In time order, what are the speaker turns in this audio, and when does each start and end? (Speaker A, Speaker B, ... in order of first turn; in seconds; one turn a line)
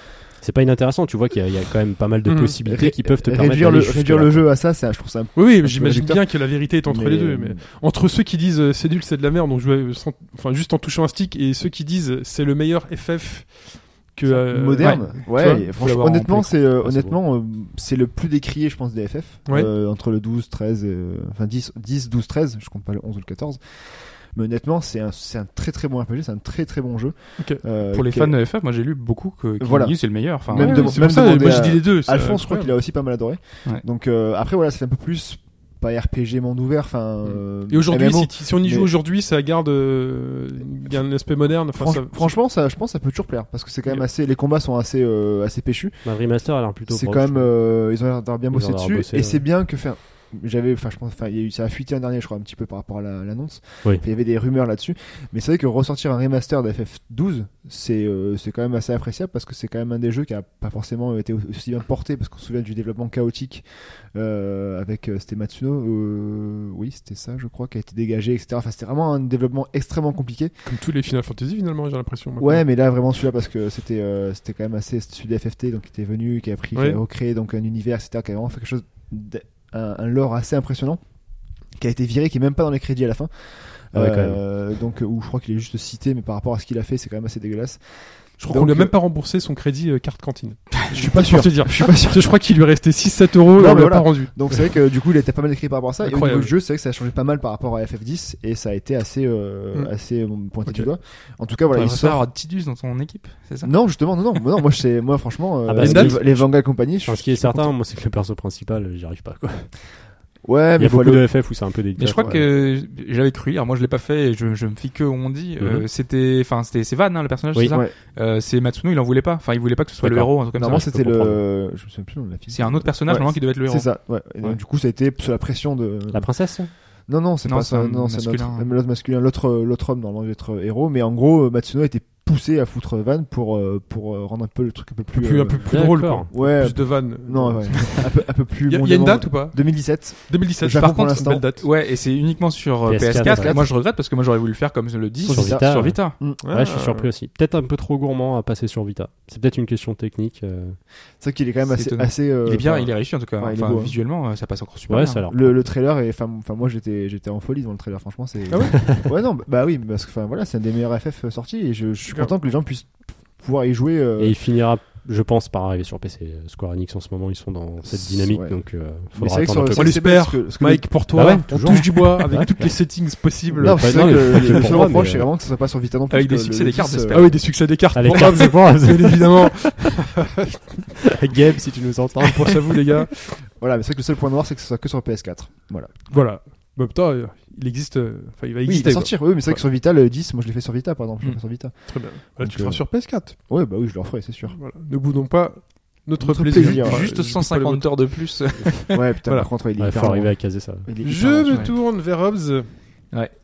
Speaker A: 0.4-4.5
Speaker B: 2.3-2.6
Speaker C: 2.6-7.6
Speaker B: 5.3-15.6
Speaker C: 14.3-28.4
Speaker D: 14.8-16.6
Speaker A: 16.8-17.1
Speaker B: 19.4-19.7
Speaker D: 27.9-31.1
Speaker C: 29.6-38.9
Speaker B: 30.5-32.7
Speaker B: 37.7-42.4
Speaker C: 41.7-46.0
Speaker A: 46.0-47.5
Speaker C: 46.9-70.5
Speaker A: 48.5-49.4
Speaker B: 70.7-72.6
Speaker C: 72.4-81.0
Speaker B: 76.7-77.0
Speaker C: 81.8-88.9
Speaker A: 83.9-84.4
Speaker B: 88.4-94.7
Speaker C: 90.9-92.3
Speaker C: 93.5-102.2
Speaker B: 96.0-96.5
Speaker D: 101.7-103.7
Speaker C: 103.6-107.7
Speaker A: 105.7-109.7
Speaker B: 105.8-106.2
Speaker C: 110.4-111.3
Speaker A: 110.8-112.5
Speaker D: 112.0-120.8
Speaker C: 112.2-112.4
Speaker A: 115.6-115.8
Speaker C: 117.7-117.9
Speaker A: 120.0-121.4
Speaker C: 120.6-126.3
Speaker D: 122.5-124.6
Speaker A: 126.1-126.7
Speaker C: 127.1-141.5
Speaker D: 127.4-128.7
Speaker B: 135.1-138.1
Speaker A: 135.7-136.3
Speaker B: 138.7-141.7
Speaker D: 141.6-146.2
Speaker A: 142.8-143.7
Speaker C: 143.2-143.7
Speaker C: 145.2-146.4
Speaker A: 145.3-150.8
Speaker B: 146.4-147.1
Speaker C: 151.2-153.9
Speaker D: 151.7-155.2
Speaker A: 154.9-155.5
Speaker C: 155.3-164.4
Speaker A: 158.6-159.1
Speaker A: 164.2-170.0
Speaker C: 167.9-168.6
Speaker C: 169.1-171.2
Speaker B: 169.7-174.9
Speaker A: 171.1-172.8
Speaker C: 173.5-177.3
Speaker A: 173.6-175.3
Speaker D: 176.1-177.4
Speaker B: 177.1-180.6
Speaker A: 177.9-179.9
Speaker A: 181.1-182.8
Speaker B: 182.3-183.1
Speaker C: 183.4-185.9
Speaker B: 186.1-189.6
Speaker C: 188.6-194.6
Speaker B: 191.9-193.4
Speaker B: 194.5-197.9
Speaker C: 196.2-197.1
Speaker D: 196.5-198.9
Speaker C: 198.9-201.7
Speaker A: 199.8-200.9
Speaker B: 201.0-202.7
Speaker D: 201.5-201.7